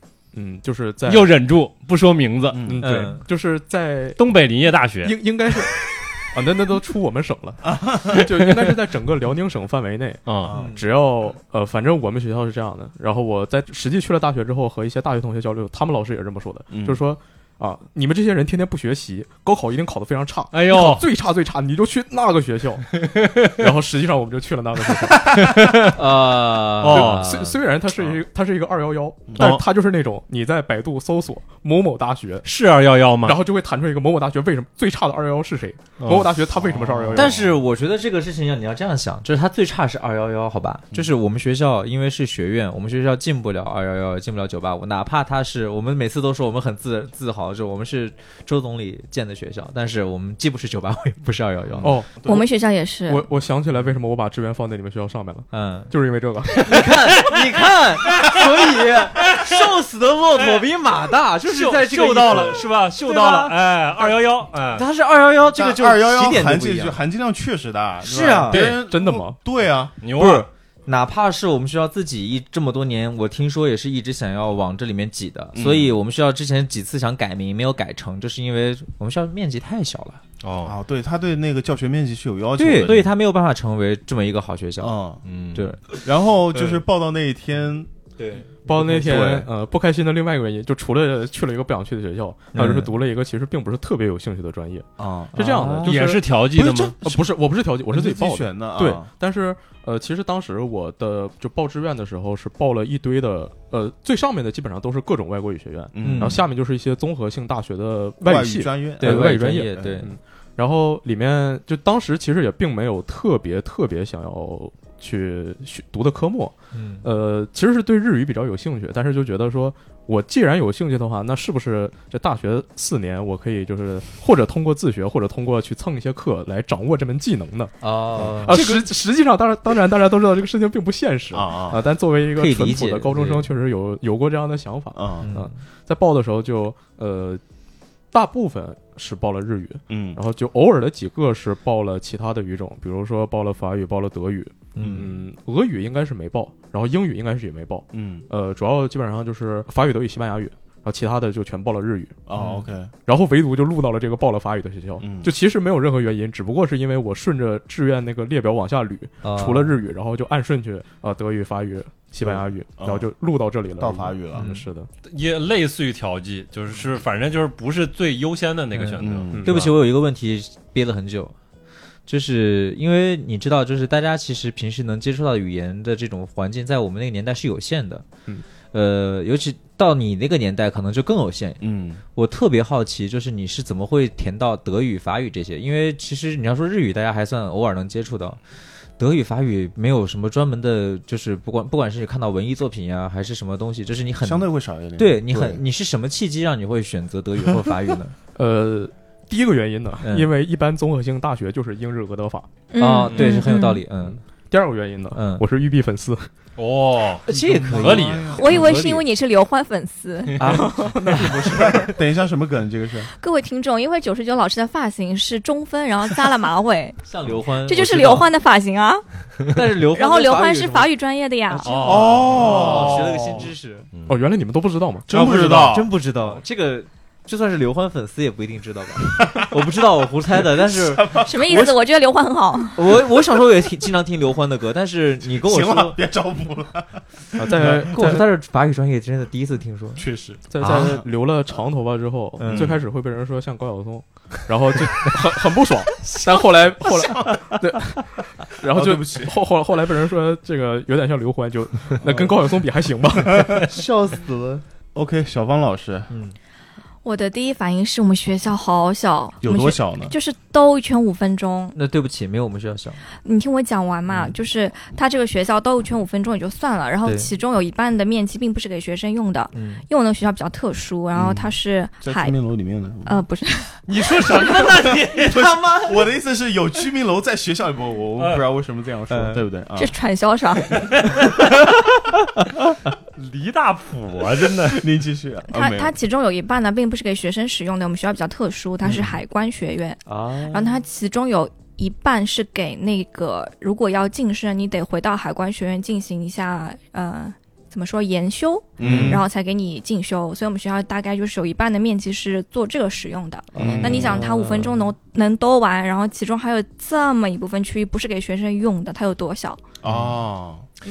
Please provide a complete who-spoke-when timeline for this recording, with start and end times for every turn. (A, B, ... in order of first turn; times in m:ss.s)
0:00.3-0:01.3 A
0:01.1-0:02.7 B
0:02.5-0:02.8 C
0:02.6-0:04.2 A
0:02.8-0:03.2 D
0:04.2-0:05.2 B
0:05.0-0:22.9 A
0:07.6-0:08.3 C
0:10.3-0:10.5 B
0:10.5-0:10.9 D
0:16.7-0:17.0 C
0:20.5-0:21.0 B
0:23.0-0:23.6 B
0:23.6-0:25.3 A
0:25.4-0:25.9 B
0:25.9-0:27.6 D
0:26.8-0:27.2 B
0:26.9-0:32.5 A
0:29.4-0:29.6 B
0:32.4-0:33.4 B
0:33.2-0:37.4 A
0:36.0-0:37.4 B
0:36.6-0:37.2 C
0:37.1-0:52.0 D
0:51.7-0:52.4 C
0:51.8-0:52.4 A
0:52.2-0:53.3 E
0:53.1-0:56.9 A
0:55.5-0:55.9 D
0:56.6-1:04.1 D
0:59.2-0:59.6 B
1:00.4-1:00.6 B
1:01.4-1:04.8 B
1:04.7-1:07.0 D
1:05.5-1:09.9 C
1:08.0-1:08.6 D
1:08.5-1:08.8 B
1:08.9-1:09.4 A
1:10.0-1:10.5 B
1:10.1-1:20.2 D
1:15.5-1:16.0 C
1:20.4-1:20.7 B
1:20.6-1:23.1 C
1:22.6-1:25.0 D
1:24.8-1:25.2 C
1:25.2-1:25.7 B
1:25.5-1:25.8 D
1:26.0-1:27.9 C
1:26.5-1:26.8 D
1:28.2-1:28.5 D
1:28.7-1:36.2 A
1:28.7-1:29.5 C
1:32.5-1:32.9 D
1:35.0-1:35.4 C
1:35.4-1:36.0 D
1:35.8-1:37.0 B
1:36.5-1:37.3 C
1:37.0-2:07.7 A
1:37.9-1:39.1 C
1:45.9-1:46.4 C
1:46.0-1:46.4 D
1:48.2-1:50.0 C
1:49.0-1:50.1 D
1:56.7-1:57.1 D
2:07.8-2:08.9 D
2:08.2-2:08.8 C
2:08.4-2:17.4 A
2:11.3-2:11.8 C
2:12.4-2:13.5 D
2:15.0-2:15.3 C
2:15.2-2:15.6 D
2:18.1-2:32.2 A
2:19.9-2:20.2 C
2:24.8-2:25.2 D
2:27.9-2:28.3 C
2:32.3-2:32.9 C
2:32.4-2:32.6 D
2:33.1-2:44.9 A
2:35.0-2:35.3 C
2:39.2-2:39.8 D
2:42.2-2:43.1 C
2:43.8-2:44.5 C
2:44.4-2:44.7 D
2:45.1-2:49.6 B
2:48.7-2:51.4 D
2:49.0-2:49.7 C
2:49.3-2:49.7 A
2:52.1-2:58.1 D
2:58.7-3:01.6 D
3:01.6-3:02.0 C
3:02.2-3:08.4 D
3:09.0-3:18.2 D
3:14.2-3:15.6 C
3:18.4-3:22.5 A
3:20.0-3:20.3 D
3:22.7-3:23.8 E
3:22.8-3:24.2 D
3:23.1-3:23.4 B
3:24.5-3:26.3 A
3:25.1-3:25.4 D
3:26.6-3:27.2 B
3:27.3-3:29.0 D
3:27.3-3:28.7 C
3:27.8-3:29.0 B
3:28.4-3:30.4 E
3:30.4-3:31.5 D
3:30.5-3:31.9 A
3:31.4-3:33.1 C
3:33.2-3:37.0 E
3:37.1-3:38.3 D
3:37.6-3:39.0 E
3:39.5-3:40.9 D
3:39.9-3:41.9 E
3:41.5-3:43.9 D
3:41.6-3:43.2 B
3:41.7-3:43.5 C
3:44.1-3:45.7 A
3:45.1-3:45.9 C
3:45.2-3:51.1 D
3:50.4-3:51.8 C
3:51.2-3:52.8 E
3:52.8-3:56.0 D
3:55.3-3:57.0 C
3:57.4-3:58.3 A
3:57.4-4:00.0 D
4:00.0-4:01.0 C
4:00.5-4:13.6 A
4:00.6-4:01.0 D
4:02.4-4:02.8 D
4:02.5-4:02.8 C
4:06.8-4:07.6 C
4:08.7-4:09.3 C
4:12.0-4:12.4 C
4:13.7-4:14.6 D
4:15.0-4:16.1 C
4:16.1-4:16.4 D
4:17.0-4:21.8 E
4:19.4-4:20.1 C
4:21.8-4:23.0 D
4:23.2-4:32.4 E
4:27.0-4:27.3 D
4:29.5-4:29.8 D
4:31.2-4:33.2 C
4:33.1-4:34.7 E
4:33.9-4:35.9 B
4:34.8-4:40.0 C
4:38.2-4:38.4 B
4:39.1-4:39.4 D
4:39.8-4:40.8 E
4:40.7-4:42.0 B
4:43.2-4:44.8 B
4:44.6-4:46.0 C
4:45.5-5:09.6 E
4:50.1-4:50.8 D
4:58.8-4:59.3 C
4:58.8-4:59.2 D
5:03.5-5:04.9 D
5:03.6-5:04.2 C
5:09.8-5:10.7 C
5:09.8-5:10.2 B